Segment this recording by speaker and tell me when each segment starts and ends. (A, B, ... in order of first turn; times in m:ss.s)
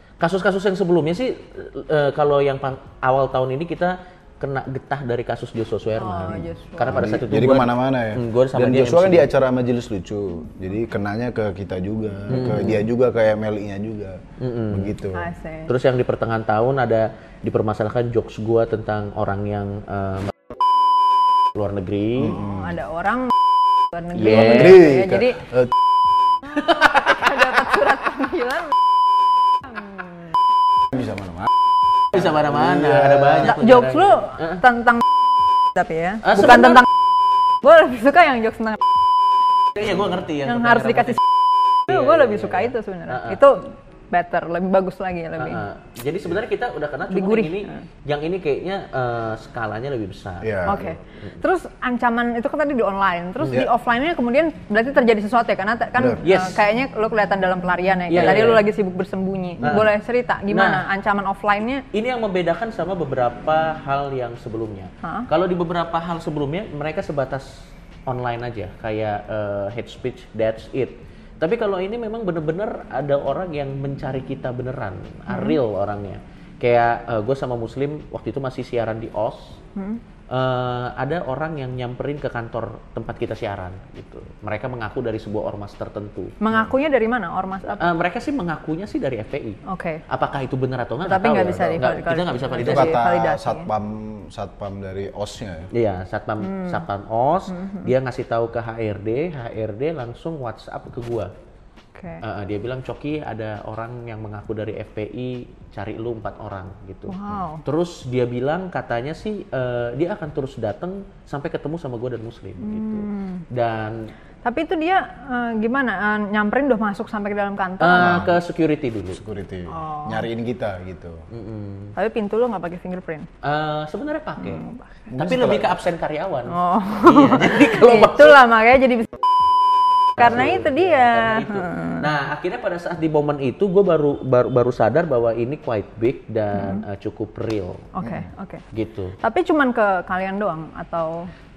0:00.2-0:09.3 A
0:06.0-0:07.0 B
0:06.9-0:14.2 C
0:12.3-0:12.8 A
0:14.4-0:14.9 A
0:14.7-0:15.3 C
0:15.1-0:15.7 B
0:15.7-0:20.3 A
0:21.5-0:22.4 A
0:22.2-0:22.8 C
0:22.2-0:23.3 B
0:23.9-0:25.4 B
0:24.1-0:24.9 A
0:24.2-0:25.7 C
0:26.6-0:27.4 A
0:26.6-0:28.7 B
0:29.6-0:30.2 B
0:30.9-0:31.5 C
0:32.1-0:34.6 A
0:32.1-0:33.6 C
0:33.4-0:35.1 B
0:35.7-0:36.8 B
0:36.2-0:36.8 A
0:37.6-0:38.8 B
0:39.7-0:41.2 A
0:40.4-0:41.2 B
0:41.9-0:43.4 A
0:41.9-0:45.6 B
0:45.4-0:50.8 A
0:47.1-0:47.8 B
0:50.4-0:50.9 C
0:50.6-1:01.8 B
0:53.4-0:53.6 A
0:55.9-0:56.2 C
0:56.2-0:56.6 A
0:58.1-0:58.6 A
0:59.6-0:59.9 C
0:59.6-0:59.9 A
1:00.5-1:00.8 A
1:01.9-1:07.5 A
1:05.0-1:05.3 B
1:08.1-1:19.6 A
1:15.3-1:15.6 B
1:19.8-1:20.0 B
1:20.3-1:26.4 A
1:26.4-1:27.9 B
1:27.7-1:33.0 A
1:29.6-1:30.0 B
1:31.0-1:33.7 B
1:31.4-1:31.8 C
1:32.6-1:35.7 C
1:35.7-1:41.3 A
1:36.4-1:36.8 B
1:37.5-1:37.9 B
1:41.9-1:42.2 B
1:42.2-1:54.1 A
1:47.1-1:47.6 B
1:52.6-1:53.4 B
1:54.4-1:58.3 B
1:57.8-1:59.2 A
1:58.0-1:58.4 C
1:59.1-2:01.2 C
1:59.7-2:00.3 B
2:01.3-2:01.9 A
2:02.0-2:03.3 B
2:03.4-2:08.4 A
2:04.4-2:04.9 B
2:05.1-2:05.7 C
2:06.5-2:09.2 B
2:10.2-2:12.1 B
2:10.2-2:17.9 A
2:16.5-2:16.8 B
2:17.9-2:18.6 B
2:18.0-2:18.3 C
2:18.7-2:19.2 A
2:19.2-2:21.3 B